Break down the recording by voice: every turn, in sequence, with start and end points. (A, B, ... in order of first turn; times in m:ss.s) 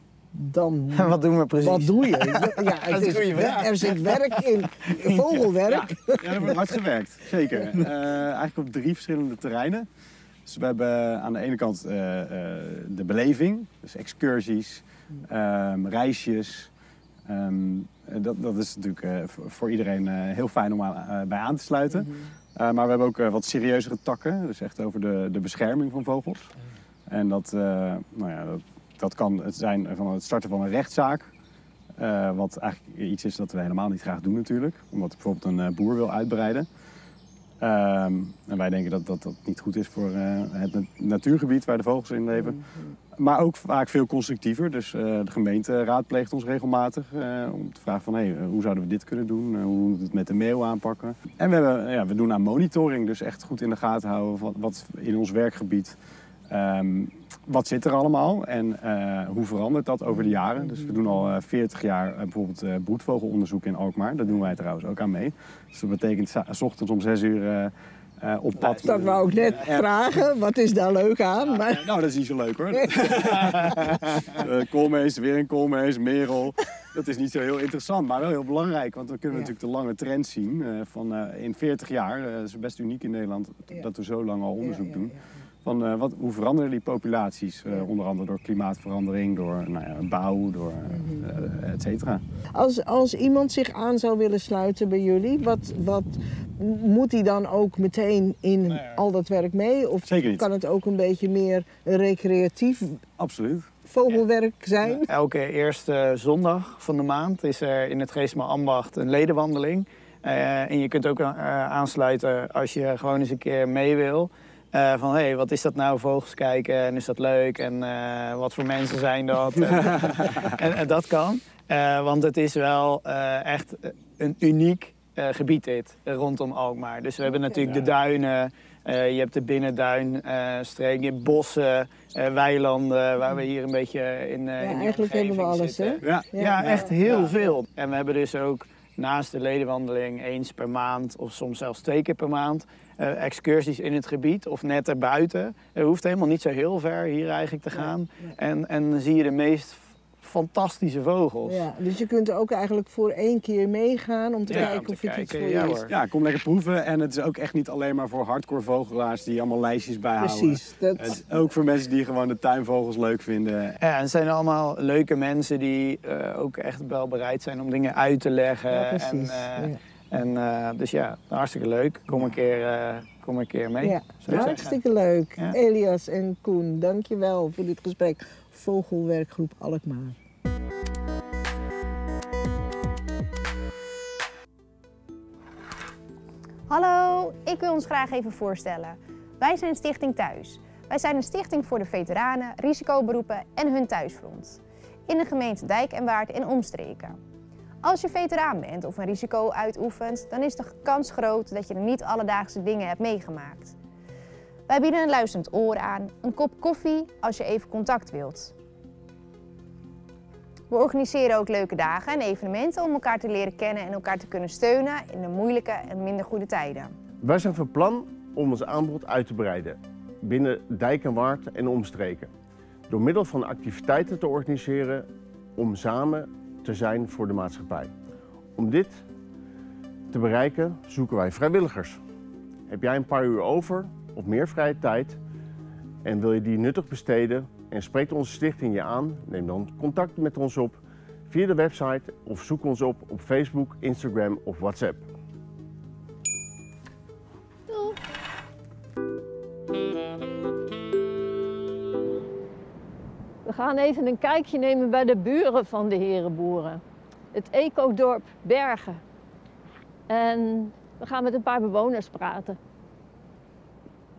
0:00.3-0:06.6 A
0:00.9-0:04.1 B
0:03.1-0:03.6 C
0:05.4-0:05.8 B
0:06.2-0:09.9 C
0:10.4-0:16.7 C
0:17.3-0:26.5 C
0:21.9-0:22.2 A
0:27.1-0:31.3 C
0:32.0-0:36.7 C
0:37.6-0:42.6 C
0:42.3-0:42.9 A
0:43.2-0:56.0 C
0:56.5-1:09.8 C
1:00.6-1:01.2 A
1:08.6-1:11.8 A
1:11.7-1:32.2 C
1:24.6-1:25.2 A
1:30.9-1:31.3 A
1:32.6-1:43.0 A
1:40.1-1:40.5 C
1:43.2-1:43.7 C
1:43.9-1:45.1 A
1:45.1-2:31.6 B
2:14.6-2:17.5 A
2:16.0-2:17.1 C
2:27.8-2:28.3 A
2:31.4-2:35.9 A
2:34.4-2:35.9 B
2:34.5-2:34.8 C
2:35.9-2:43.8 C
2:40.2-2:41.2 A
2:43.8-2:54.8 B
2:48.7-2:49.8 A
2:53.8-3:00.2 A
3:06.7-3:17.2 D
3:17.8-3:23.8 D
3:24.7-3:28.5 D
3:30.7-3:37.0 D
3:37.2-3:42.3 E
3:42.9-3:45.1 E
3:45.6-3:47.9 E
3:48.6-3:49.0 E
3:50.1-3:52.0 E
3:52.7-3:55.2 E
3:56.0-4:05.1 E
4:07.7-4:08.0 F
4:13.4-4:16.8 F
4:17.3-4:19.0 F
4:20.1-4:22.6 F